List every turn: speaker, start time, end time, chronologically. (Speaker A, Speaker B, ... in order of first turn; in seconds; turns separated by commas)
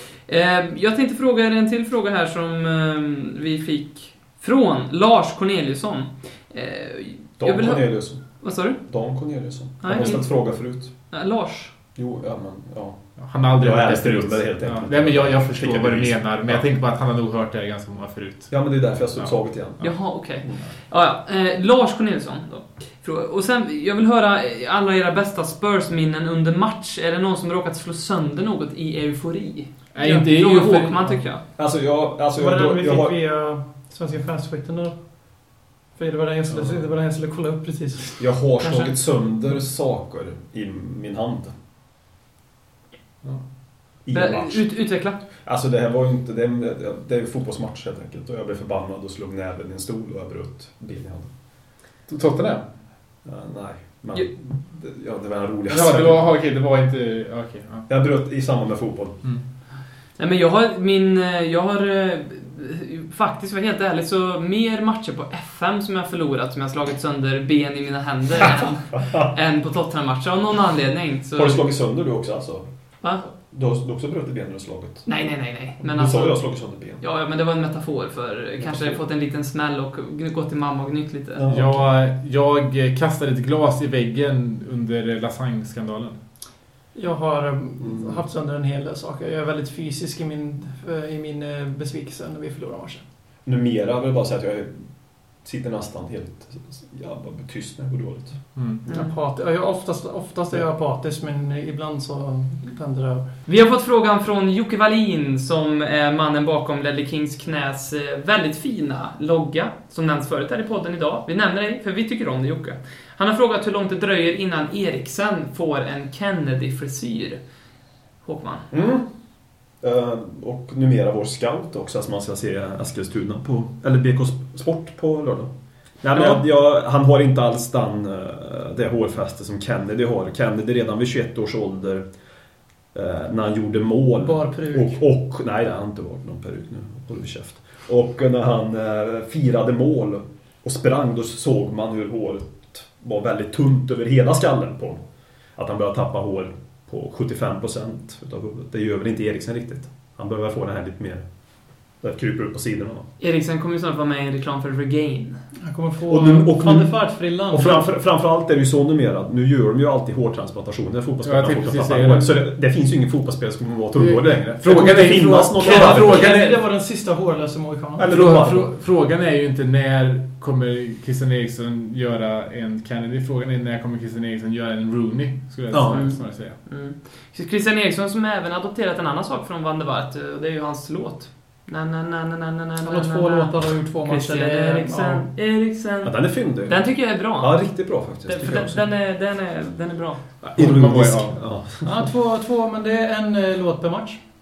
Speaker A: 0.2-11.7, Speaker B: 7.4-11.2, Speaker B: 11.9-16.7, Speaker C: 13.2-19.9, Speaker B: 18.5-20.6, Speaker A: 19.8-31.4, Speaker C: 29.9-31.2, Speaker B: 31.5-33.1, Speaker D: 32.4-38.5, Speaker B: 36.5-36.9, Speaker B: 38.2-41.5, Speaker A: 38.6-38.9, Speaker C: 43.2-43.5, Speaker B: 44.0-51.7, Speaker A: 44.1-45.2, Speaker C: 52.1-52.9, Speaker B: 53.2-56.4, Speaker C: 55.7-57.9, Speaker B: 57.9-59.3, Speaker A: 60.2-71.8, Speaker B: 69.0-69.3, Speaker B: 71.3-77.0, Speaker A: 75.1-81.4, Speaker B: 78.6-79.0, Speaker B: 81.3-82.0, Speaker C: 81.5-86.2, Speaker D: 86.9-93.0, Speaker B: 87.8-88.2, Speaker B: 93.5-98.8, Speaker C: 98.5-98.8, Speaker A: 98.9-99.2, Speaker D: 98.9-103.3, Speaker A: 103.5-117.4, Speaker A: 118.2-118.7, Speaker B: 118.7-132.1, Speaker B: 132.9-153.1, Speaker D: 134.2-135.0, Speaker A: 153.2-155.4, Speaker D: 155.6-157.8, Speaker B: 156.1-166.6, Speaker C: 161.2-162.4, Speaker C: 163.9-166.6, Speaker D: 165.5-168.1, Speaker B: 168.0-168.7, Speaker C: 168.1-176.6, Speaker B: 175.7-176.3, Speaker A: 175.9-190.4, Speaker D: 182.8-185.3, Speaker B: 186.0-188.8, Speaker C: 190.4-191.5, Speaker B: 190.5-192.1, Speaker D: 191.8-194.2